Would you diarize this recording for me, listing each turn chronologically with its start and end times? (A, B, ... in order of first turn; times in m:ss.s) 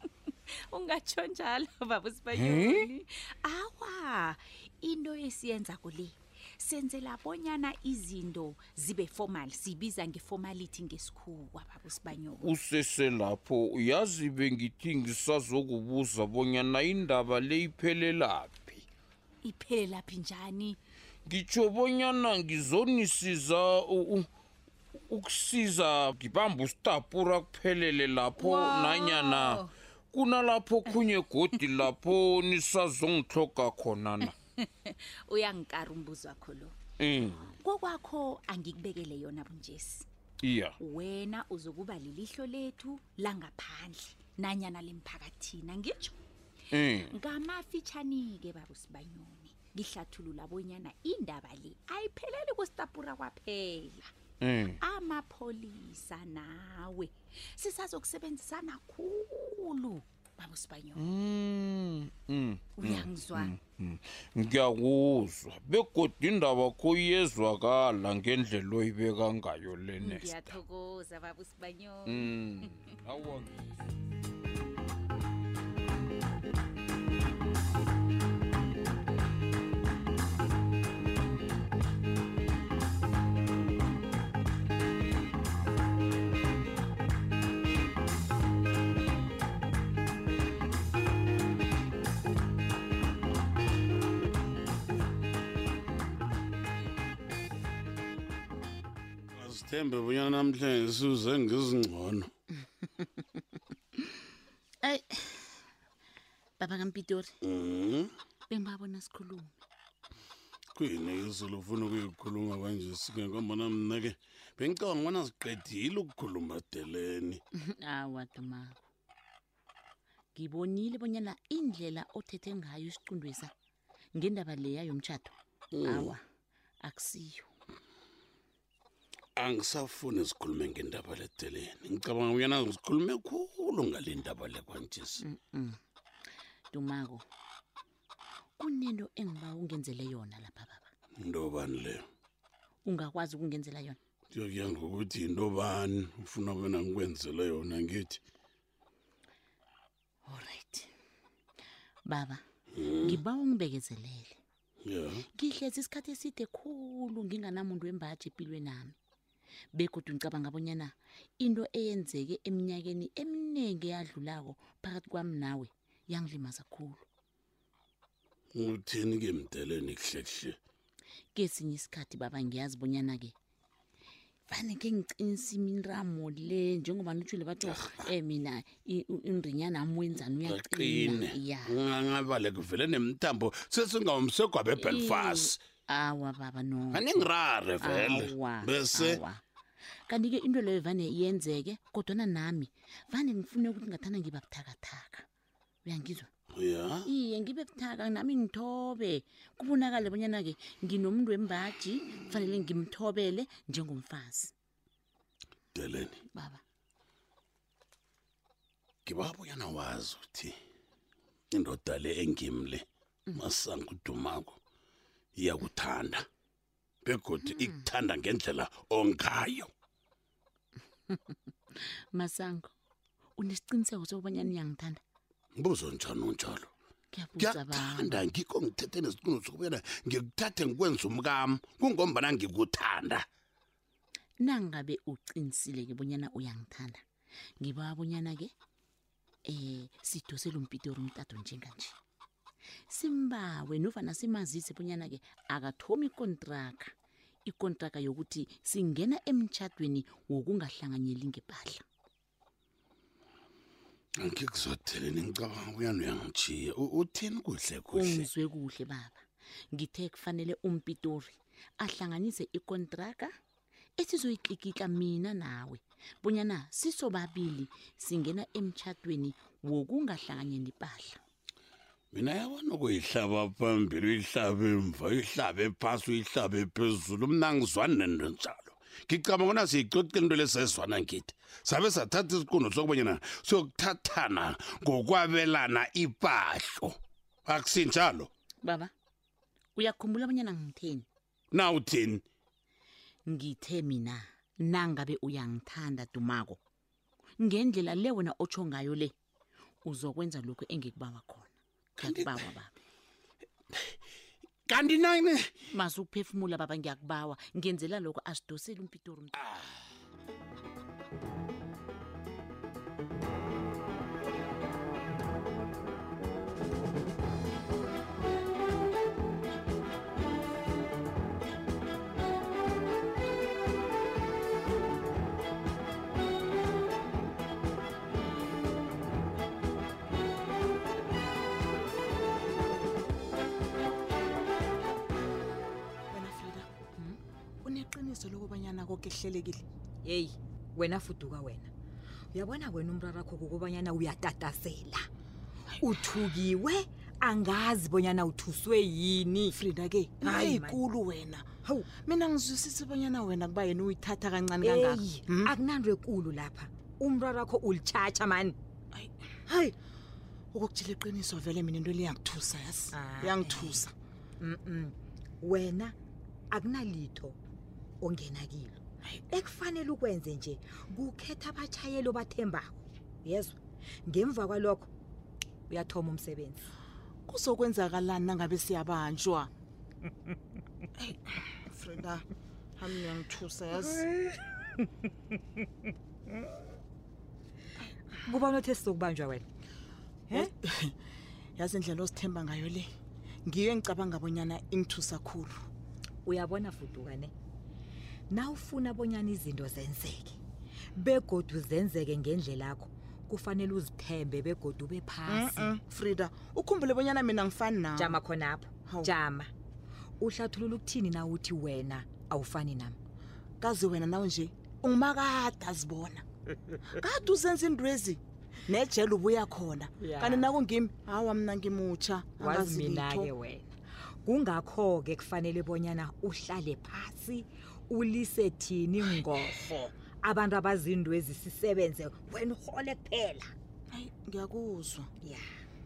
0:00.7-0:12.5 A
0:02.3-0:02.9 B
0:12.4-0:18.8 B
0:19.4-0:20.8 A
0:21.2-0:24.3 B
0:25.1-0:34.3 B
0:28.4-0:29.7 A
0:34.6-0:36.7 A
0:37.0-0:37.5 B
0:37.6-0:40.0 A
0:40.4-0:40.7 B
0:40.8-0:46.2 A
0:46.7-0:47.2 B
0:47.0-0:54.1 A
0:54.4-0:54.8 B
0:54.8-1:01.0 A
1:00.9-1:10.6 B
1:02.8-1:03.5 A
1:10.0-1:12.7 A
1:12.0-1:13.5 B
1:39.3-1:42.3 C
1:44.8-1:45.6 D
1:46.6-1:47.3 D
1:47.4-1:48.1 C
1:48.5-1:49.6 D
1:50.8-1:57.4 C
1:57.6-1:58.8 D
2:00.4-2:03.5 D
2:04.1-2:06.2 D
2:05.7-2:06.1 C
2:06.8-2:07.5 D
2:09.4-2:15.2 C
2:15.3-2:15.8 D
2:16.7-2:17.2 D
2:18.6-2:20.9 D
2:21.2-2:22.0 C
2:22.8-2:24.0 D
2:24.3-2:28.2 C
2:30.3-2:30.9 D
2:32.0-2:32.4 D
2:32.7-2:33.2 C
2:33.0-2:34.4 D
2:34.8-2:35.2 C
2:35.4-2:39.0 D
2:39.8-2:47.0 D
2:48.5-2:50.6 C
2:51.3-2:53.3 D
2:54.5-3:01.8 D
2:57.7-2:58.1 C
3:00.4-3:05.7 C
3:04.8-3:07.3 D
3:06.9-3:09.2 C
3:07.8-3:09.4 D
3:10.1-3:15.2 D
3:15.8-3:16.3 D
3:16.5-3:17.1 C
3:17.0-3:24.5 D
3:25.7-3:26.2 C
3:26.3-3:26.6 D
3:29.0-3:30.6 C
3:31.5-3:34.6 C
3:35.4-3:36.3 C
3:37.0-3:39.7 C
3:37.4-3:37.8 D
3:41.7-3:42.7 D
3:43.4-3:45.0 D
3:45.6-3:46.7 C
3:47.1-3:48.2 D
3:47.4-3:53.2 C
3:54.4-3:57.0 D
3:57.6-3:58.5 D
3:59.4-4:01.9 D
4:02.9-4:06.9 D
4:07.4-4:11.8 D
4:14.2-4:18.3 C
4:17.9-4:23.3 D
4:24.0-4:31.2 D
4:32.1-4:48.3 C
4:48.6-4:48.9 D
4:49.8-4:51.0 D
4:51.5-4:52.2 C
4:53.3-4:56.6 D
4:57.4-4:59.1 D
4:59.8-5:02.8 D
5:02.0-5:02.4 C
5:04.7-5:05.5 C
5:05.8-5:09.4 D
5:36.1-5:36.7 E
5:37.6-5:39.6 E
5:40.0-5:41.7 F
5:42.3-5:45.1 F
5:45.8-5:49.6 F
5:49.5-5:55.5 E
5:50.2-5:50.8 F
5:51.6-5:51.9 F
5:54.6-5:58.6 F
5:58.9-5:59.7 E
6:00.5-6:03.9 E
6:02.9-6:03.7 F
6:04.4-6:05.9 F
6:06.5-6:07.4 F
6:08.0-6:14.9 F
6:15.7-6:16.7 F
6:17.3-6:19.5 E
6:21.0-6:22.2 E
6:22.8-6:24.0 E
6:28.2-6:29.4 F
6:30.4-6:30.9 E
6:31.6-6:32.9 E
6:33.4-6:35.6 E
6:36.2-6:37.3 F
6:38.3-6:40.4 F
6:40.9-6:45.8 F
6:45.3-6:48.2 E
6:47.9-6:49.5 F
6:48.8-6:49.1 E
6:50.2-6:53.0 F
6:53.6-6:56.2 E
6:56.9-7:03.3 E
7:00.0-7:00.5 F
7:02.4-7:13.5 F
7:13.9-7:15.1 E
7:15.2-7:15.5 F